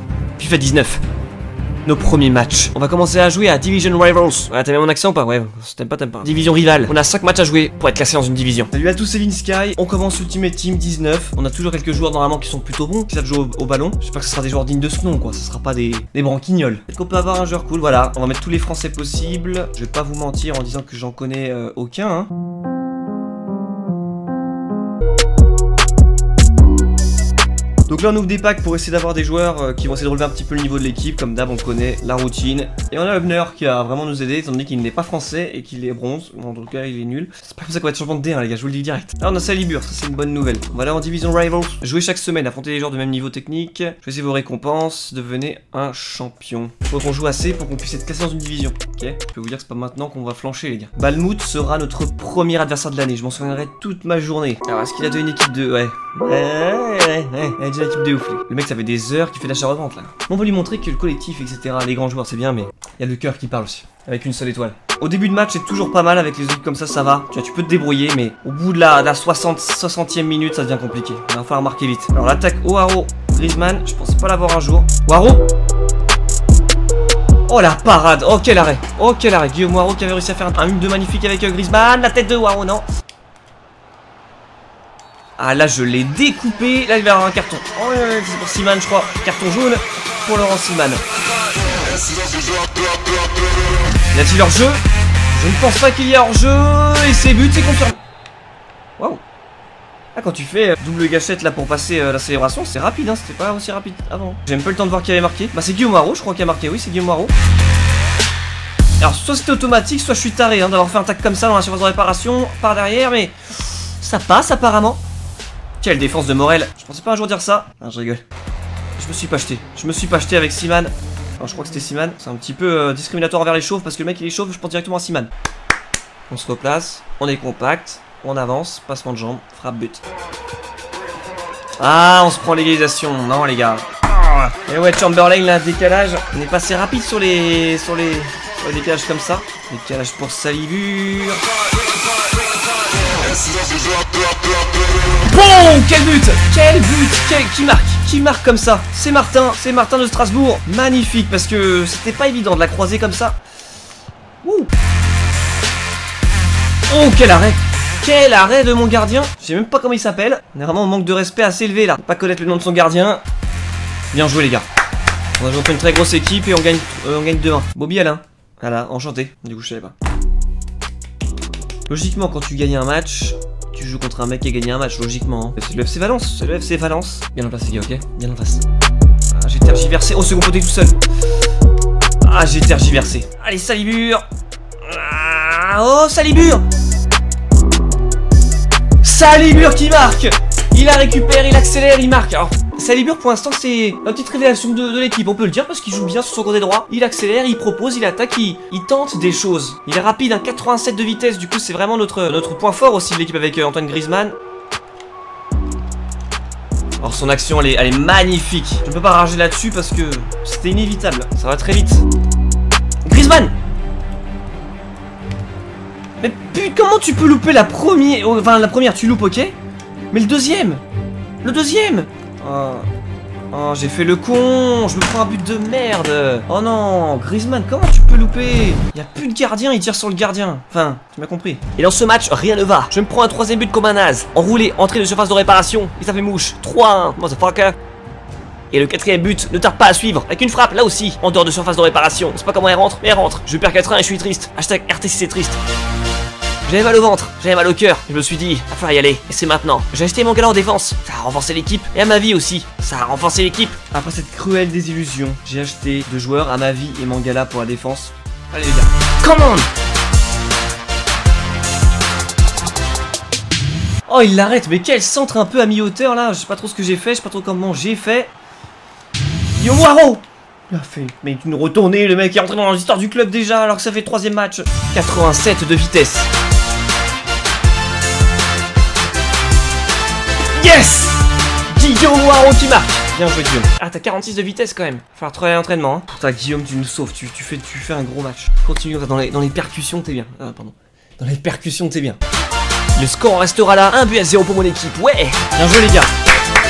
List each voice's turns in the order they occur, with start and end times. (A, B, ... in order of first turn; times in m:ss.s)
0:00.4-0:01.0 A
0:01.8-0:22.3 A
0:27.9-1:15.4 A
1:17.5-1:22.8 A
1:25.4-1:31.0 A
1:34.1-1:34.8 A
1:35.3-1:38.0 A
1:40.1-1:47.3 A
1:49.0-1:53.3 A
1:54.0-1:55.0 A
1:55.8-1:58.2 A
1:59.0-2:05.3 A
2:06.3-2:10.0 A
2:11.8-2:21.4 A
2:25.2-2:33.4 A
2:34.4-2:34.7 A
2:36.9-2:43.2 A
2:44.1-2:44.6 A
2:45.4-2:49.9 A
2:51.9-2:58.6 A
2:59.3-3:01.0 A
3:02.2-3:04.2 A
3:04.8-3:06.6 A
3:09.0-3:24.4 A
3:27.0-3:32.0 A
3:33.0-3:33.5 A
3:36.2-3:39.5 A
3:40.1-3:40.8 A
3:41.4-3:42.8 A
3:43.5-3:57.8 A
3:58.7-4:05.6 A
4:06.6-4:19.7 A
4:24.1-4:28.3 A
4:29.5-4:36.3 A
4:40.5-4:52.2 A
4:53.0-4:56.1 A